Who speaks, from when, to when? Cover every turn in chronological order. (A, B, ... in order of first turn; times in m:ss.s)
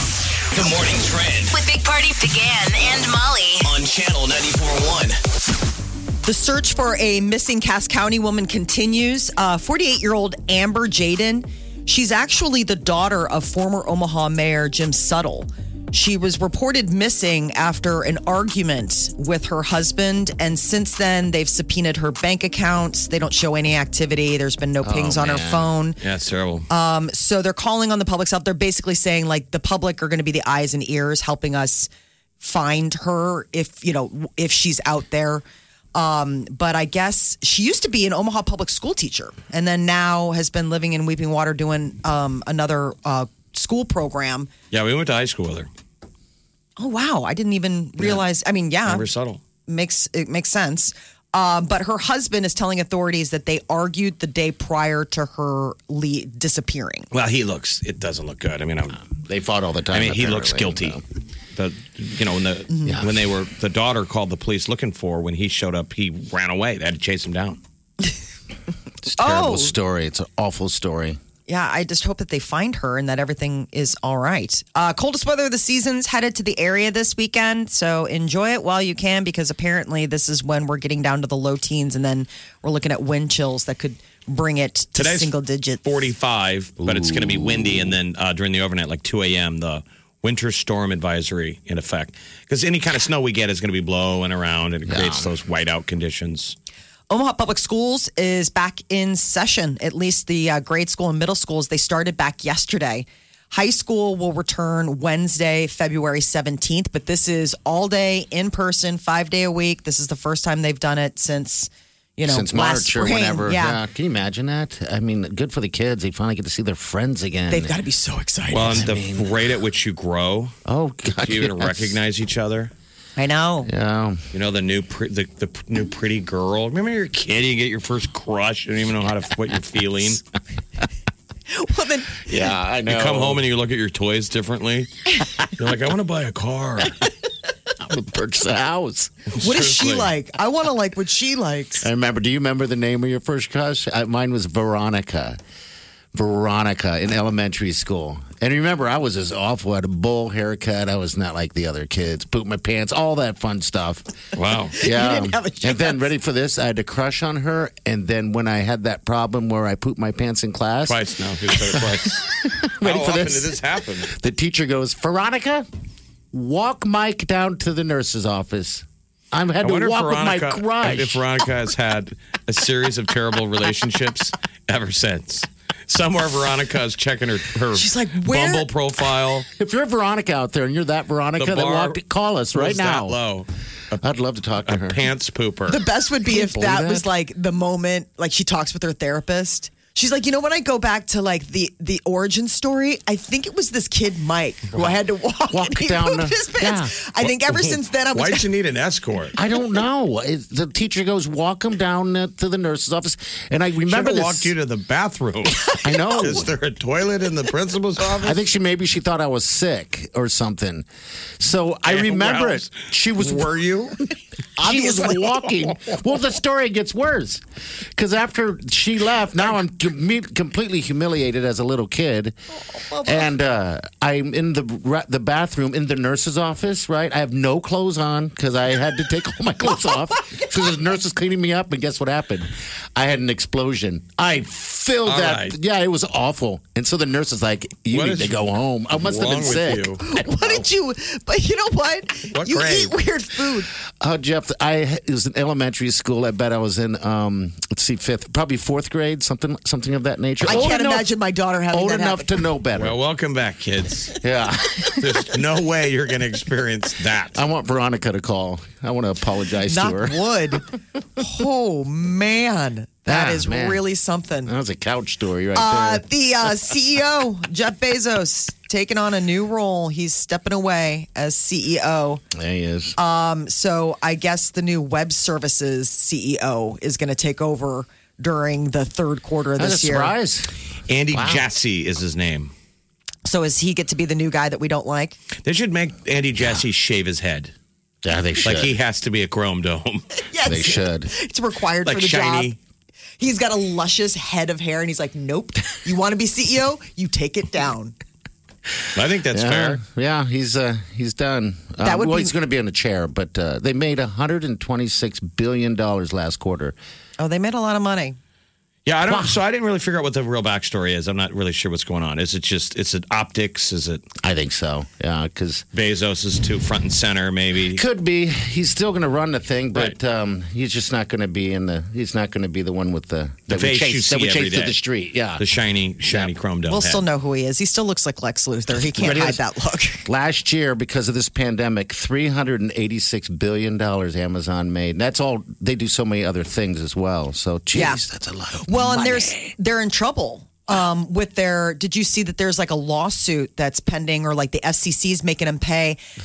0:00.5-0:01.5 A
0:01.5-0:03.7 B
0:03.6-0:05.2 A
0:06.2-0:26.0 C
0:24.8-0:25.7 D
0:26.0-0:26.7 E
0:26.7-0:31.9 C
0:32.4-0:35.4 C
0:35.9-0:44.5 C
0:44.7-0:45.7 E
0:46.8-0:49.0 C
0:48.8-0:49.4 E
0:49.7-0:57.1 C
0:57.1-0:59.0 E
0:59.2-1:01.0 D
0:59.9-1:01.0 E
1:01.6-1:07.6 E
1:02.8-1:03.2 D
1:09.0-1:11.2 D
1:09.2-1:09.7 C
1:11.5-1:25.8 C
1:25.0-1:25.3 E
1:25.8-1:36.5 E
1:26.8-1:27.9 D
1:34.8-1:35.3 D
1:37.1-1:53.8 C
1:52.2-1:57.8 D
1:57.5-1:58.8 C
1:58.5-2:00.6 E
1:58.6-1:59.4 D
2:00.6-2:01.9 D
2:01.2-2:02.7 E
2:03.2-2:03.7 C
2:03.6-2:04.2 D
2:04.3-2:10.2 E
2:11.5-2:12.2 C
2:12.3-2:13.4 D
2:12.9-2:14.9 E
2:15.6-2:17.0 E
2:17.8-2:19.1 D
2:19.3-2:20.1 E
2:19.4-2:21.9 C
2:21.8-2:25.4 D
2:26.1-2:34.0 D
2:34.3-2:34.8 E
2:34.8-2:36.0 C
2:34.8-2:45.7 D
2:40.9-2:42.2 E
2:42.8-2:44.1 E
2:46.3-2:51.2 D
2:49.6-2:59.5 E
2:57.7-2:58.7 C
2:59.6-3:03.2 D
3:01.4-3:02.0 E
3:02.5-3:04.0 E
3:04.0-3:05.0 D
3:04.6-3:05.8 E
3:05.7-3:18.5 C
3:06.2-3:07.0 D
3:15.5-3:17.0 D
3:18.1-3:19.3 E
3:19.4-3:24.5 D
3:23.9-3:28.4 E
3:25.8-3:26.5 D
3:28.1-3:30.8 D
3:31.4-3:33.6 D
3:31.9-3:33.9 E
3:34.6-3:37.4 D
3:34.6-3:35.5 C
3:38.0-3:42.3 D
3:42.7-3:43.2 C
3:43.0-4:00.2 D
3:55.0-3:55.6 E
3:57.9-4:00.0 E
4:00.0-4:03.7 C
4:02.3-4:02.9 E
4:04.0-4:11.1 D
4:10.4-4:12.3 C
4:11.7-4:12.9 D
4:12.8-4:14.2 E
4:14.2-4:14.8 D
4:14.8-4:17.4 E
4:17.3-4:20.2 D
4:19.7-4:20.6 C
4:21.2-4:24.5 C
4:23.1-4:23.8 D
4:24.4-4:26.0 D
4:25.5-4:32.2 C
4:32.3-4:33.0 D
4:33.0-4:40.1 C
4:39.6-4:40.5 D
4:40.9-4:42.5 E
4:41.1-4:41.4 D
4:43.2-4:45.2 C
4:45.4-4:47.5 E
4:48.0-4:48.8 D
4:48.4-4:50.0 E
4:50.3-4:52.5 C
4:50.4-4:51.1 D
4:51.8-4:52.6 E
4:53.2-4:57.9 C
4:58.9-4:59.8 E
4:59.3-5:06.8 D
5:01.8-5:02.3 C
5:07.2-5:08.2 C
5:08.8-5:14.0 E
5:09.1-5:09.4 D
5:14.2-5:15.6 D
5:15.7-5:17.8 E
5:17.7-5:25.4 D
5:23.5-5:24.8 E
5:25.4-5:27.0 E
5:26.0-5:26.3 D
5:26.7-5:30.0 C
5:28.8-5:29.4 D
5:30.0-5:39.5 D
5:37.7-5:38.0 C
5:38.6-5:46.0 C